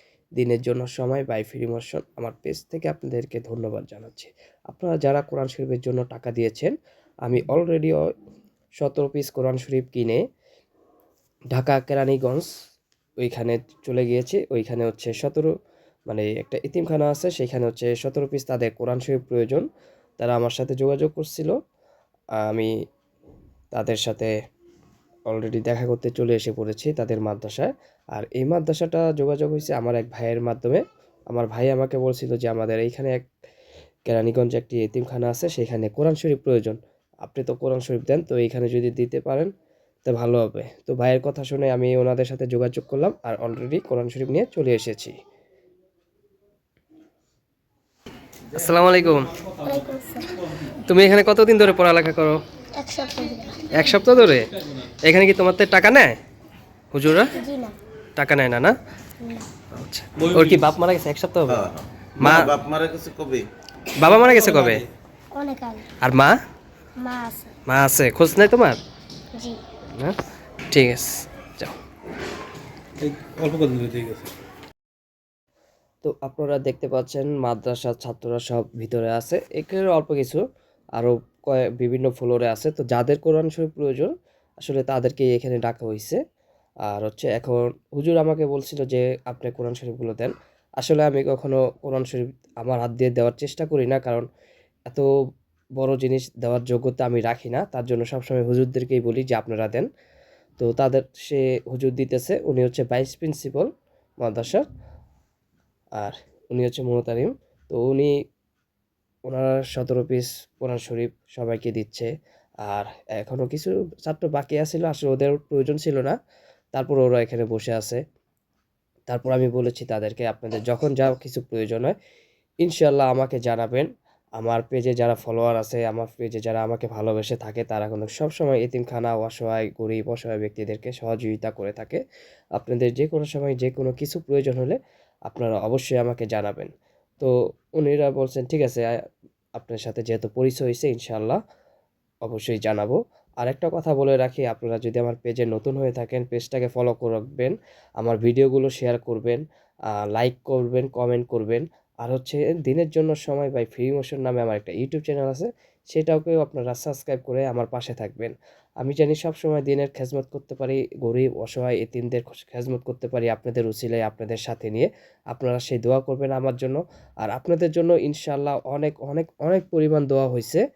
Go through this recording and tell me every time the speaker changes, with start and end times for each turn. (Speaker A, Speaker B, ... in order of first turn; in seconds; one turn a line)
Speaker A: 0.4-6.7
Speaker A: 7.3-8.1
Speaker A: 8.8-10.2
Speaker A: 11.5-12.5
Speaker A: 13.2-15.5
Speaker A: 16.1-19.7
Speaker A: 20.2-21.5
Speaker A: 22.4-22.7
Speaker A: 23.7-24.3
Speaker A: 25.3-33.3
Speaker A: 34.1-39.5
Speaker A: 40.1-45.1
Speaker A: 48.5-49.4
Speaker B: 49.4-49.7
Speaker C: 49.6-50.4
Speaker A: 50.8-52.4
Speaker C: 52.8-53.8
Speaker A: 53.7-56.2
Speaker A: 56.9-57.4
Speaker C: 57.3-57.8
Speaker A: 58.2-58.8
Speaker C: 59.2-59.5
Speaker A: 59.7-61.7
Speaker B: 60.2-60.6
Speaker D: 61.5-63.5
Speaker A: 62.2-62.5
Speaker A: 64.0-64.8
Speaker B: 64.1-64.8
Speaker C: 65.3-65.9
Speaker A: 66.0-66.4
Speaker C: 67.0-67.5
Speaker A: 67.7-68.8
Speaker C: 69.3-69.6
Speaker A: 70.7-71.8
Speaker B: 73.0-74.3
Speaker A: 76.0-80.4
Speaker A: 81.0-86.2
Speaker A: 86.9-94.3
Speaker A: 95.8-99.9
Speaker A: 100.6-103.7
Speaker A: 104.2-104.7
Speaker A: 106.0-108.2
Speaker A: 109.3-112.1
Speaker A: 112.6-116.2
Speaker A: 116.7-118.0
Speaker A: 119.1-122.0
Speaker A: 122.6-132.0
Speaker A: 132.6-138.9
Speaker A: 139.6-141.4
Speaker A: 142.2-170.6